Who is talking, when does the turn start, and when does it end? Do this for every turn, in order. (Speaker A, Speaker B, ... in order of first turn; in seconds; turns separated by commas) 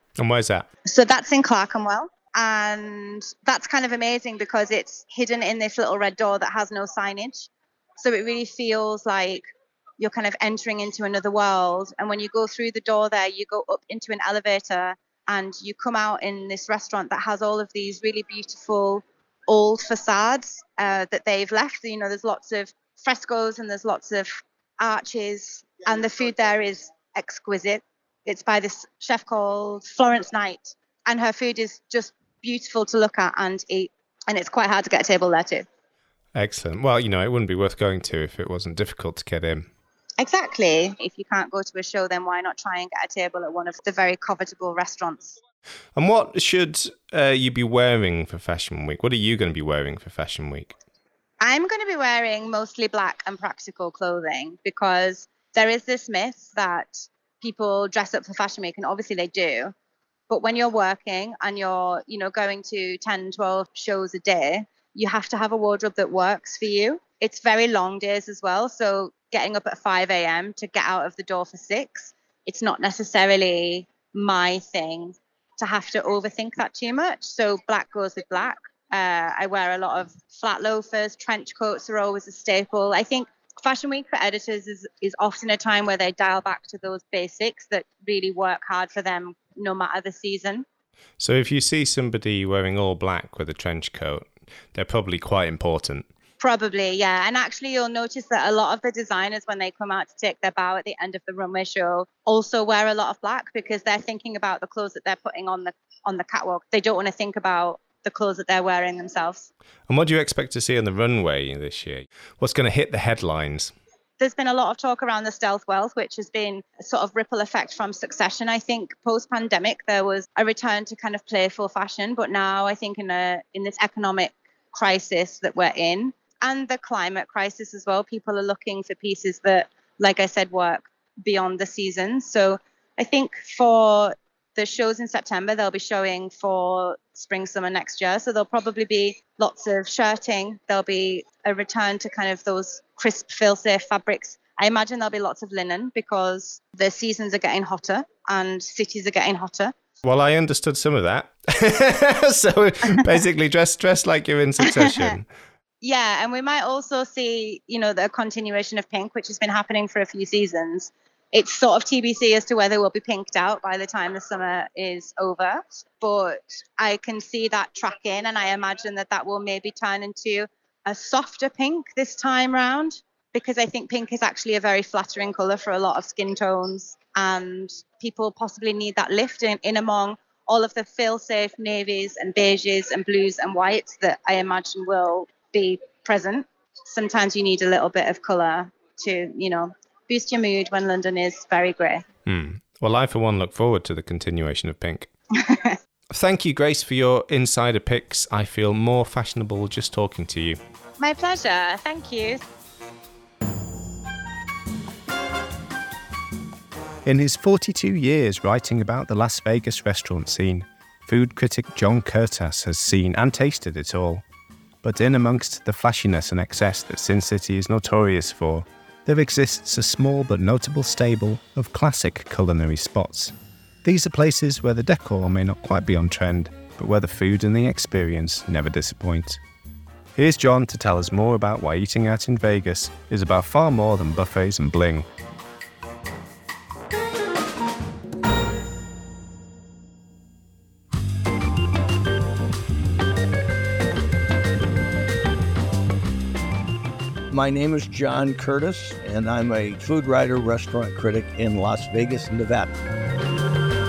Speaker A: 0.2-0.7, Speaker B: 0.9-9.4, Speaker B: 10.0-35.6, Speaker A: 36.4-39.7, Speaker B: 40.2-45.4, Speaker A: 46.0-50.7, Speaker B: 51.4-59.7, Speaker B: 60.3-90.7, Speaker A: 91.2-96.1, Speaker B: 96.4-109.5, Speaker A: 109.9-113.7, Speaker B: 114.2-149.7, Speaker A: 150.0-155.3, Speaker B: 154.6-155.1, Speaker B: 155.8-192.0, Speaker A: 192.3-195.1, Speaker B: 195.3-195.8, Speaker A: 196.1-200.6, Speaker B: 201.0-202.4, Speaker A: 207.1-214.2, Speaker A: 214.8-229.4, Speaker A: 230.2-235.1, Speaker C: 247.3-252.7